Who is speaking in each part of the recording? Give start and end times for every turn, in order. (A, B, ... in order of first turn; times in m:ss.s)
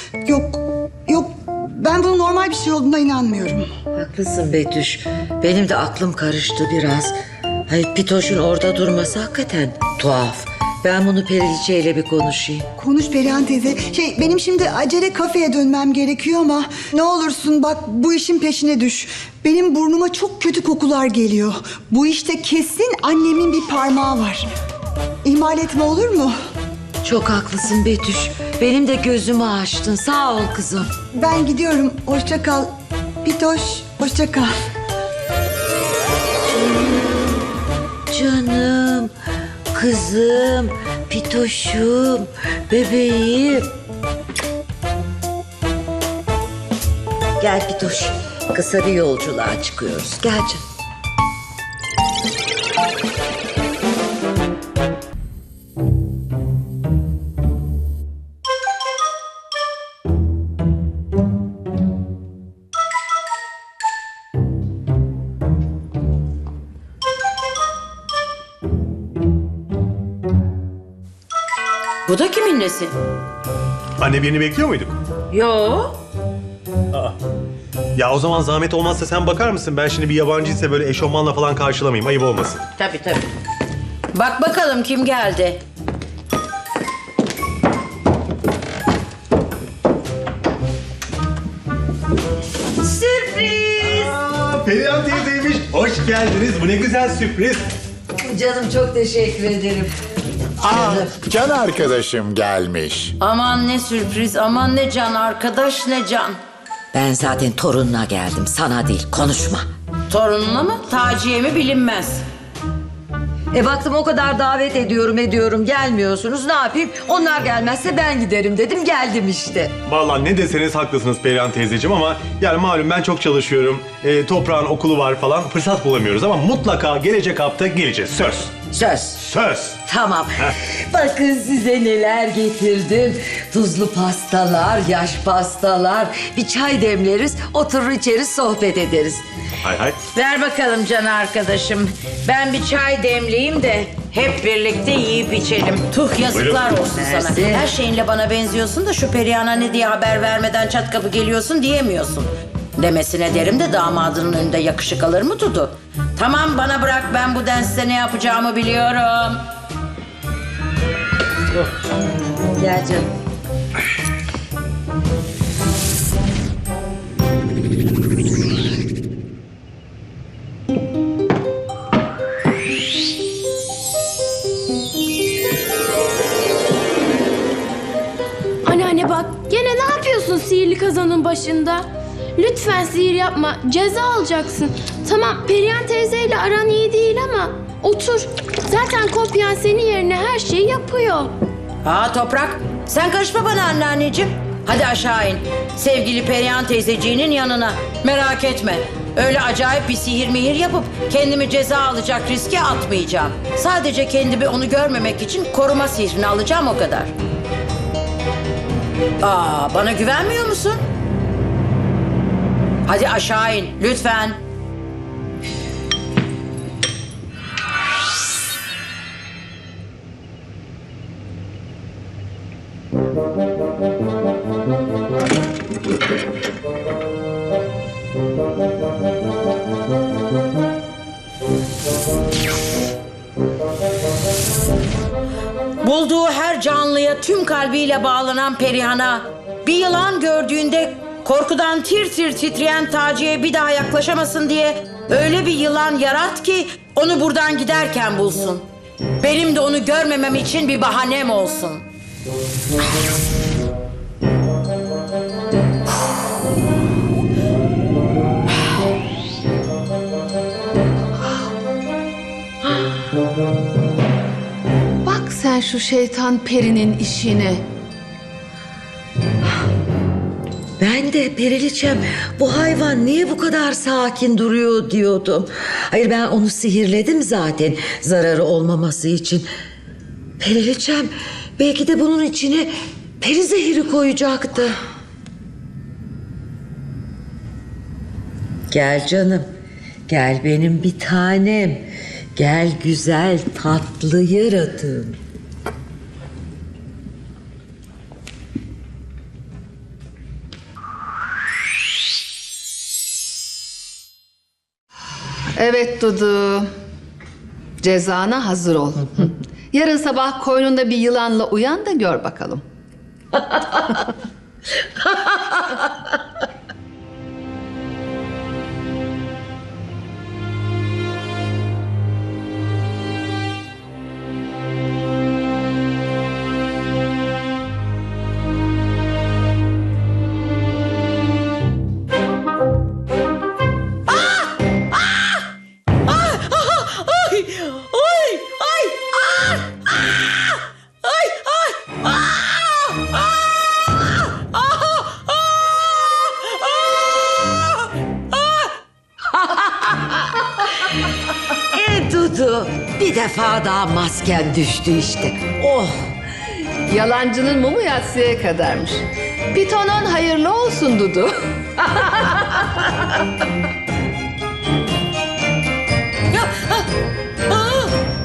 0:00.2-0:03.7 A
0:03.9-0:12.7 B
0:12.8-0:24.5 A
0:25.2-0:26.3 A
0:27.0-0:30.9 B
0:31.1-0:32.7 A
0:33.2-0:34.5 A
0:36.4-0:37.5 B
0:38.1-0:39.1 B
0:39.7-0:43.7 B
0:47.4-0:50.6 B
1:12.1-1:12.9 C
1:14.0-1:15.0 D
1:15.3-1:16.0 C
1:18.0-1:22.6 D
1:22.8-1:23.3 C
1:24.1-1:25.6 C
1:32.8-1:34.2 B
1:33.8-1:37.6 D
1:38.2-1:39.9 B
1:40.6-1:43.1 E
1:40.7-1:41.1 B
1:43.2-1:46.4 C
1:46.9-1:49.7 B
1:50.1-1:52.2 C
1:53.5-1:59.8 B
1:59.9-2:08.6 D
2:08.7-2:09.2 B
2:09.2-2:09.8 D
2:09.8-2:19.2 B
2:19.6-2:20.0 D
2:20.1-2:39.4 C
2:26.3-2:26.7 D
2:27.0-2:27.7 B
2:42.5-2:43.1 B
2:58.6-3:11.3 F
3:11.8-3:27.1 C
3:29.2-3:30.8 C
3:32.8-3:34.4 C
3:55.8-4:08.6 C
4:09.2-4:11.8 C
4:25.0-4:27.6 G
4:30.8-4:39.4 B
4:40.4-4:44.8 B
4:48.7-4:49.5 B
4:50.1-4:55.2 B
5:05.6-5:06.7 G
5:07.8-5:12.6 G
5:13.3-5:14.0 B
5:15.0-5:15.9 B
5:34.1-5:35.4 C
5:36.1-5:39.6 C
5:41.0-5:43.5 C
5:44.6-5:46.6 C
5:49.3-5:50.6 B
5:51.6-5:56.1 B
5:56.9-6:02.6 G
6:06.3-6:06.8 C
6:07.5-6:07.9 C